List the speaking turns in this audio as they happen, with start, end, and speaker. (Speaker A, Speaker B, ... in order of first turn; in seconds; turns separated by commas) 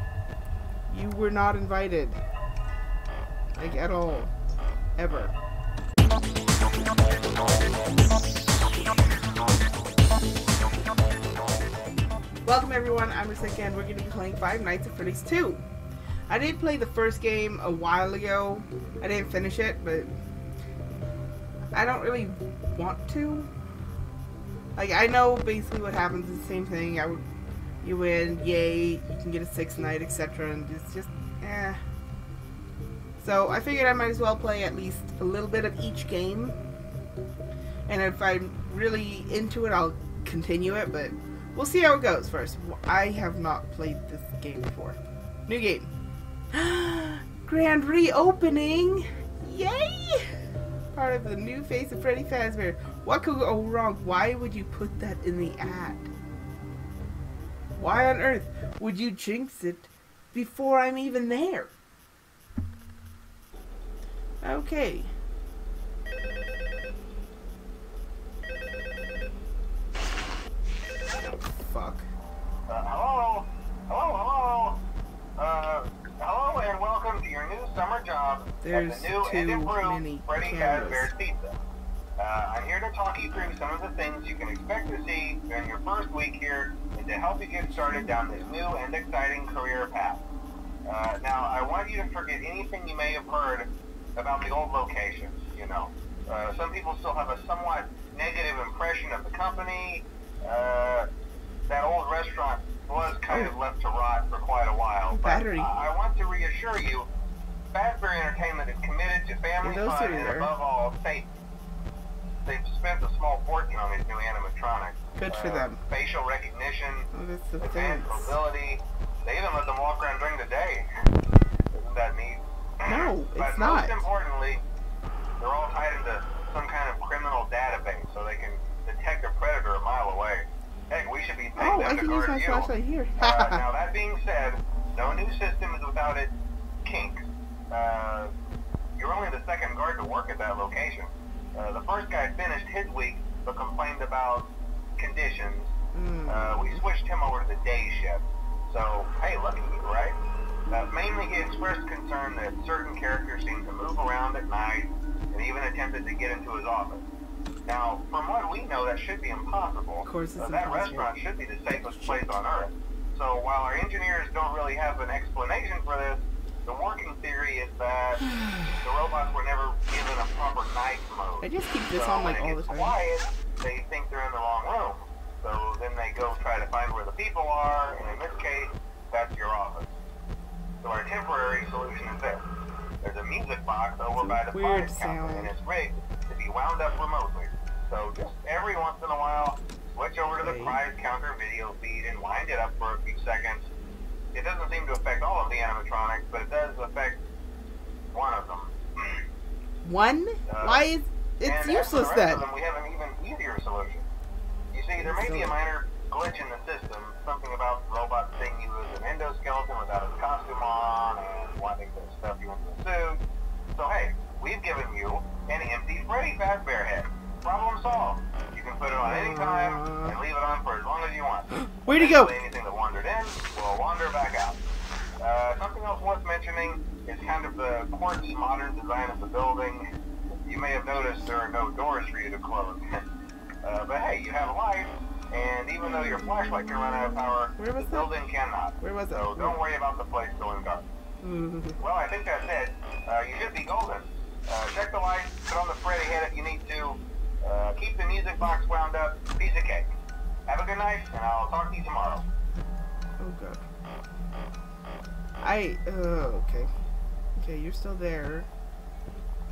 Speaker A: 0.9-2.2, Speaker A: 3.6-4.3, Speaker A: 5.0-5.3, Speaker A: 12.4-15.6, Speaker A: 16.3-20.1, Speaker A: 21.7-23.5, Speaker A: 24.8-27.2, Speaker A: 27.8-31.8, Speaker A: 33.2-36.6, Speaker A: 37.9-45.9, Speaker A: 46.5-50.3, Speaker A: 50.9-56.1, Speaker A: 57.8-61.7, Speaker A: 64.4-65.1, Speaker A: 71.2-72.1, Speaker B: 72.7-74.8, Speaker B: 75.4-81.6, Speaker A: 78.6-81.1, Speaker B: 82.2-90.2, Speaker A: 87.7-88.6, Speaker B: 90.9-101.1, Speaker B: 101.7-107.1, Speaker A: 105.1-105.7, Speaker B: 107.7-111.3, Speaker A: 109.6-110.5, Speaker B: 112.5-117.1, Speaker A: 115.2-115.8, Speaker A: 117.1-118.4, Speaker B: 117.6-120.9, Speaker B: 121.7-124.6, Speaker A: 122.9-124.1, Speaker B: 125.4-136.3, Speaker A: 131.6-133.6, Speaker B: 136.8-138.3, Speaker B: 139.0-145.7, Speaker A: 145.9-146.9, Speaker B: 146.3-150.2, Speaker B: 150.7-157.0, Speaker B: 157.7-168.3, Speaker A: 160.0-161.1, Speaker A: 161.7-162.4, Speaker A: 168.2-168.8, Speaker B: 168.8-179.9, Speaker A: 171.4-173.0, Speaker B: 180.8-182.4, Speaker B: 183.0-193.6, Speaker A: 184.1-185.6, Speaker A: 190.3-190.8, Speaker B: 194.3-197.2, Speaker B: 198.1-199.2, Speaker A: 199.8-202.5, Speaker B: 200.5-200.8, Speaker B: 201.4-204.1, Speaker B: 204.7-213.2, Speaker A: 205.0-205.6, Speaker B: 213.8-224.6, Speaker A: 219.0-220.2, Speaker A: 221.5-222.3, Speaker B: 225.2-233.1, Speaker B: 233.6-240.8, Speaker A: 237.6-238.2, Speaker A: 238.8-239.6, Speaker A: 241.2-241.8, Speaker B: 241.8-249.9, Speaker B: 250.5-252.2, Speaker A: 253.2-253.6, Speaker A: 255.4-256.7, Speaker A: 257.4-258.5